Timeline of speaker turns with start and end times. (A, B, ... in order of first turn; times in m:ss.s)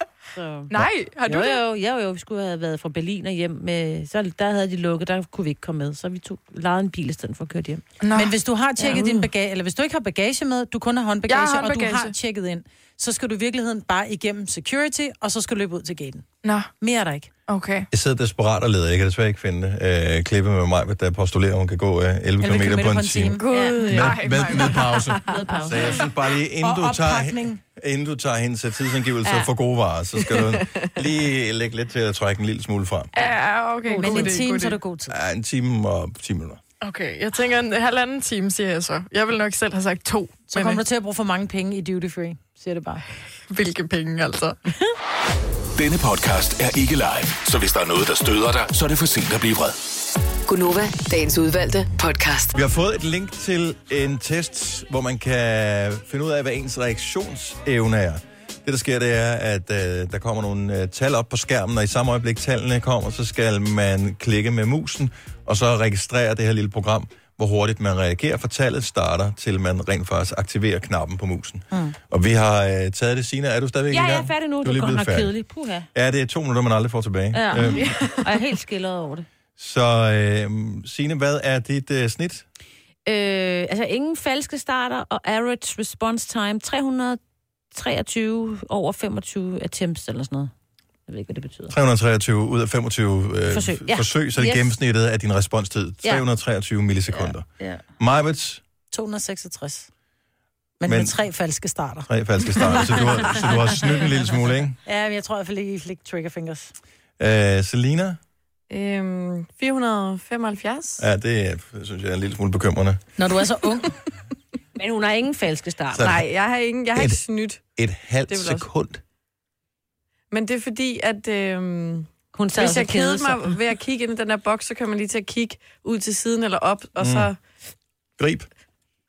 0:00.3-0:00.7 A
0:00.7-0:01.6 B
0:01.2-0:07.8 A
0:08.0-0:08.3 B
0:08.1-0:16.2 C
0:08.8-0:09.3 A
0:11.3-0:12.1 B
0:16.4-0:16.7 B
0:16.8-0:17.3 C
0:17.5-0:17.9 B
0:17.9-0:33.1 D
0:22.4-0:23.4 C
0:23.4-0:24.2 E
0:23.5-0:24.1 A
0:23.9-0:25.0 B
0:25.3-0:26.0 A
0:26.6-0:27.6 C
0:30.3-0:30.9 E
0:33.1-0:34.8 B
0:33.9-0:35.2 C
0:33.9-0:34.4 A
0:35.1-0:36.6 D
0:36.8-0:40.8 B
0:40.5-0:43.0 C
0:43.5-0:44.6 B
0:45.8-0:49.8 F
0:50.5-0:52.5 G
0:52.5-1:15.3 D
1:13.9-1:15.8 A
1:15.9-1:17.9 D
1:17.3-1:19.2 A
1:17.8-1:18.2 E
1:19.6-1:22.4 D
1:23.0-1:27.2 A
1:27.7-1:30.5 A
1:31.1-1:31.7 A
1:31.7-1:37.5 D
1:33.5-1:34.7 A
1:37.1-1:37.8 A
1:38.0-1:38.6 D
1:38.9-1:39.9 C
1:40.8-1:42.1 C
1:40.9-1:41.1 D
1:42.1-1:44.8 D
1:42.6-1:43.1 C
1:44.8-1:46.7 C
1:47.2-1:48.2 D
1:48.7-1:51.0 E
1:51.0-1:53.0 D
1:53.2-1:53.9 C
1:54.8-1:56.1 A
1:55.9-1:56.2 D
1:56.0-1:57.6 E
1:56.9-1:57.2 D
1:57.8-1:59.0 D
1:58.3-1:58.7 E
2:00.3-2:07.4 E
2:02.3-2:03.5 A
2:07.0-2:07.3 D
2:08.2-2:08.5 D